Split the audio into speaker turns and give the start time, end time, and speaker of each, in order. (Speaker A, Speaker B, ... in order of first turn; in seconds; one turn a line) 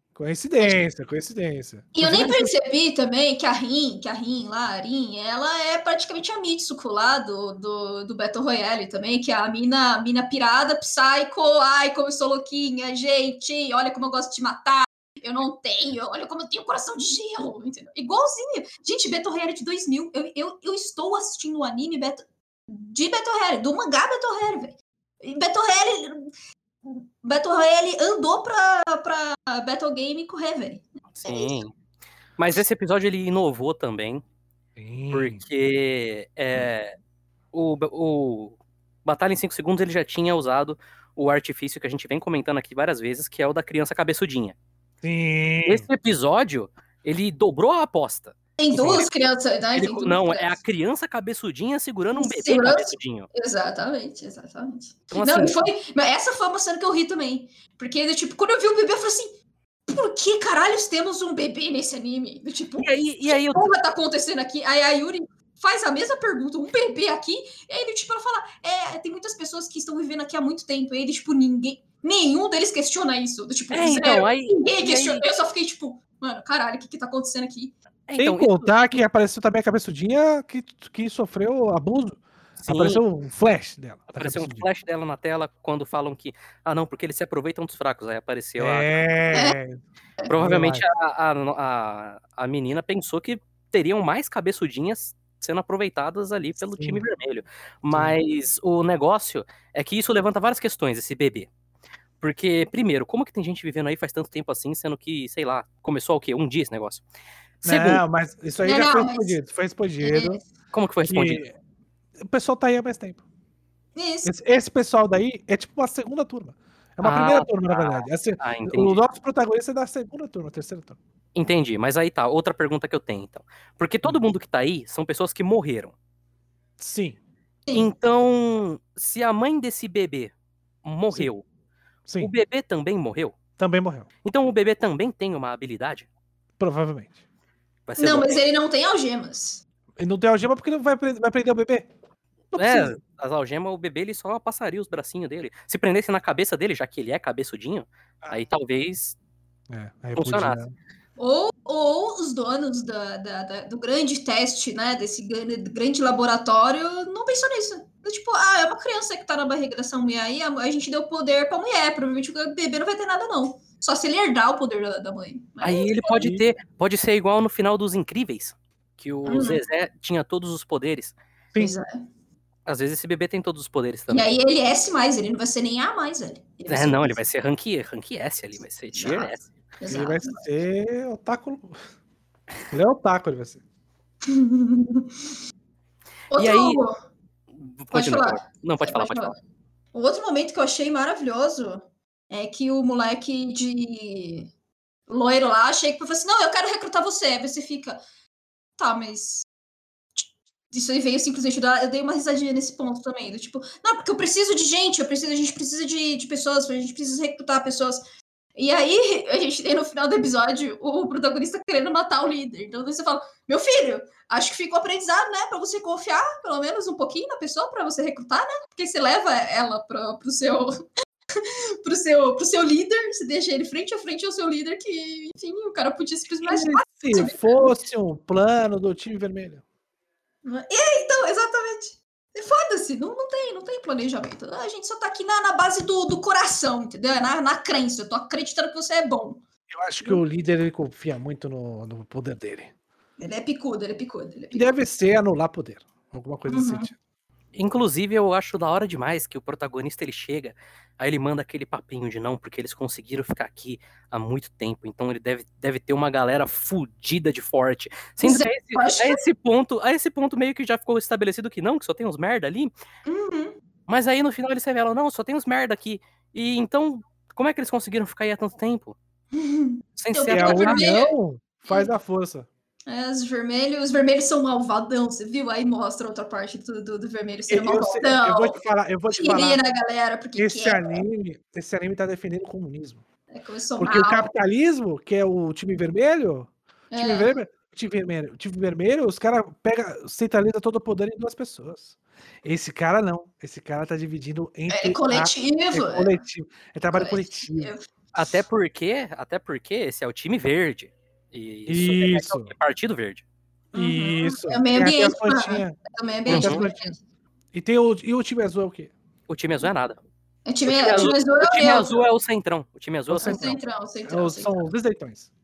Speaker A: 0.1-2.5
Speaker B: 1.9-26.3
Speaker B: 26.8-31.6
Speaker C: 31.1-31.7
Speaker C: 32.4-34.2
Speaker A: 34.8-35.4
Speaker C: 35.1-37.0
Speaker C: 37.5-44.5
Speaker A: 45.0-45.9
Speaker C: 45.6-49.1
Speaker B: 48.6-50.6
Speaker C: 49.7-53.3
Speaker B: 52.1-59.4
Speaker C: 55.1-55.5
Speaker B: 59.9-77.7
Speaker C: 62.8-63.7
Speaker C: 73.7-75.3
Speaker C: 78.1-78.9
Speaker A: 78.2-84.7
Speaker C: 82.6-83.0
Speaker C: 84.1-89.0
Speaker A: 88.6-89.8
Speaker B: 89.3-89.6
Speaker C: 90.3-101.5
Speaker A: 90.3-90.8
Speaker A: 96.7-97.0
Speaker A: 97.9-98.2
Speaker C: 102.2-107.0
Speaker C: 107.6-108.0
Speaker A: 107.6-110.4
Speaker B: 108.6-109.4
Speaker B: 110.0-110.4
Speaker C: 110.7-111.4
Speaker A: 111.0-111.5
Speaker A: 112.2-113.2
Speaker B: 114.0-114.3
Speaker A: 114.2-121.0
Speaker C: 117.0-119.0
Speaker C: 121.3-125.9
Speaker A: 126.8-127.2
Speaker B: 127.7-127.9
Speaker C: 127.7-130.3
Speaker C: 130.8-131.4
Speaker A: 132.1-132.3
Speaker C: 132.2-133.4
Speaker A: 133.6-134.1
Speaker C: 134.2-136.1
Speaker A: 136.6-137.2
Speaker C: 137.9-138.4
Speaker B: 138.0-139.6
Speaker A: 140.0-141.9
Speaker A: 142.5-142.9
Speaker C: 142.5-149.2
Speaker A: 149.7-150.7
Speaker C: 150.2-150.6
Speaker B: 151.2-166.1
Speaker C: 165.6-171.1
Speaker A: 166.1-166.4
Speaker B: 169.2-169.6
Speaker B: 171.6-172.1
Speaker C: 172.7-174.3
Speaker B: 174.1-177.2
Speaker C: 176.7-179.5
Speaker B: 178.9-180.4
Speaker A: 179.9-181.8
Speaker A: 182.7-183.6
Speaker B: 184.2-185.4
Speaker B: 186.3-187.0
Speaker C: 186.3-186.8
Speaker C: 187.6-189.3
Speaker B: 187.9-189.4
Speaker B: 189.9-194.5
Speaker B: 195.1-198.0
Speaker B: 198.8-199.4
Speaker B: 200.2-208.0
Speaker B: 208.6-220.8
Speaker B: 221.4-227.8
Speaker A: 226.4-229.6
Speaker B: 230.4-239.4
Speaker A: 239.7-242.7
Speaker B: 243.2-244.7
Speaker A: 244.5-246.9
Speaker B: 246.5-246.9
Speaker C: 247.5-262.7
Speaker B: 258.2-259.2
Speaker B: 263.1-263.6
Speaker C: 263.9-268.9
Speaker B: 269.3-271.1
Speaker C: 269.9-270.8
Speaker A: 270.3-272.5
Speaker B: 271.6-271.9
Speaker B: 272.9-281.0
Speaker A: 277.5-279.6
Speaker A: 280.4-283.0
Speaker B: 283.3-284.3
Speaker A: 283.8-297.7
Speaker B: 286.9-287.4
Speaker B: 294.7-296.2
Speaker B: 296.9-297.8
Speaker C: 298.1-303.2
Speaker A: 301.7-302.5
Speaker B: 303.7-307.0
Speaker A: 303.7-306.9
Speaker C: 306.3-306.6
Speaker A: 307.5-308.9
Speaker C: 309.3-310.0
Speaker B: 310.4-312.0
Speaker C: 310.6-313.6
Speaker A: 313.1-315.3
Speaker B: 313.2-314.7